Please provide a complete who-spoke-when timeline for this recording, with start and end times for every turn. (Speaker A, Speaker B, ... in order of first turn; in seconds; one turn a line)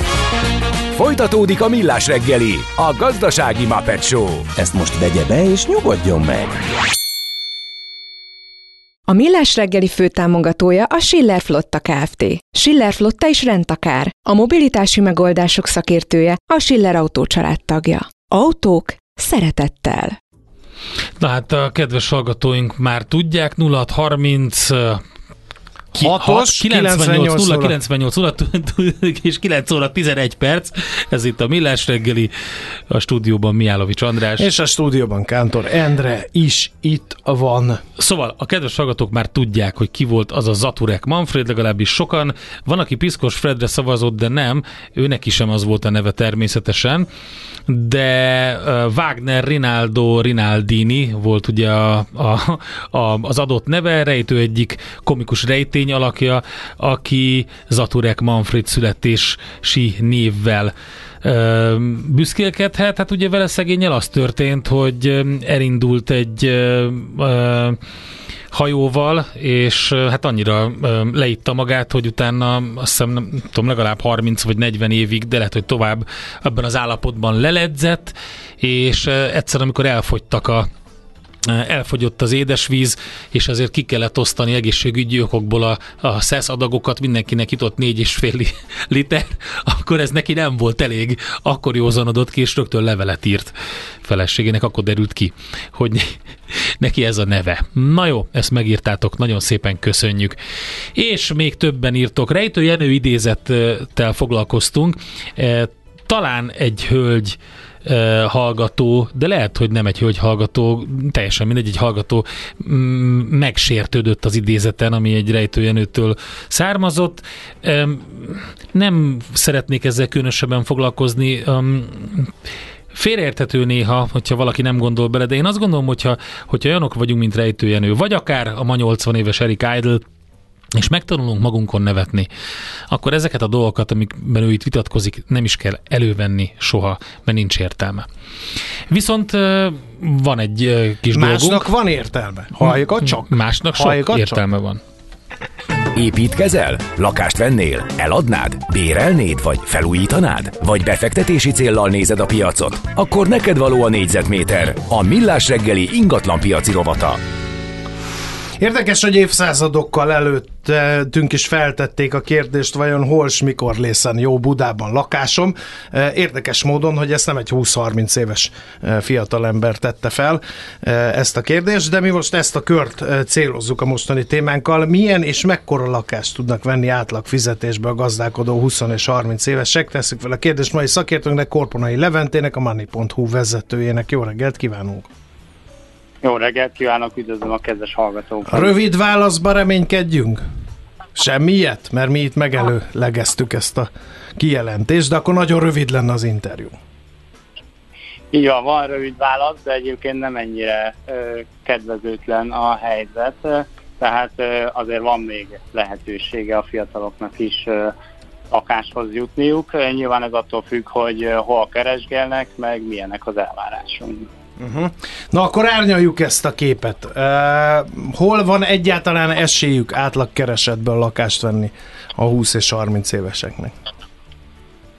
Speaker A: 0.9-4.5
Speaker B: 4.6-6.7
Speaker C: 9.1-20.2
Speaker D: 21.2-25.0
Speaker E: 25.9-27.8
Speaker D: 25.9-32.3
Speaker D: 32.9-34.5
Speaker E: 34.4-37.8
Speaker D: 38.0-47.1
Speaker D: 47.7-67.8
Speaker D: 68.5-80.7
Speaker D: 81.5-93.5
Speaker D: 94.0-100.4
Speaker D: 101.0-122.3
Speaker D: 122.9-130.0
Speaker D: 130.7-132.3
Speaker D: 132.9-138.1
Speaker D: 138.9-141.7
Speaker E: 141.1-144.4
Speaker D: 142.6-144.8
Speaker A: 145.9-157.2
Speaker E: 158.6-185.1
Speaker F: 186.2-188.7
Speaker E: 188.5-190.4
Speaker E: 191.2-196.8
Speaker F: 198.3-207.9
Speaker F: 208.5-214.3
Speaker E: 214.6-223.7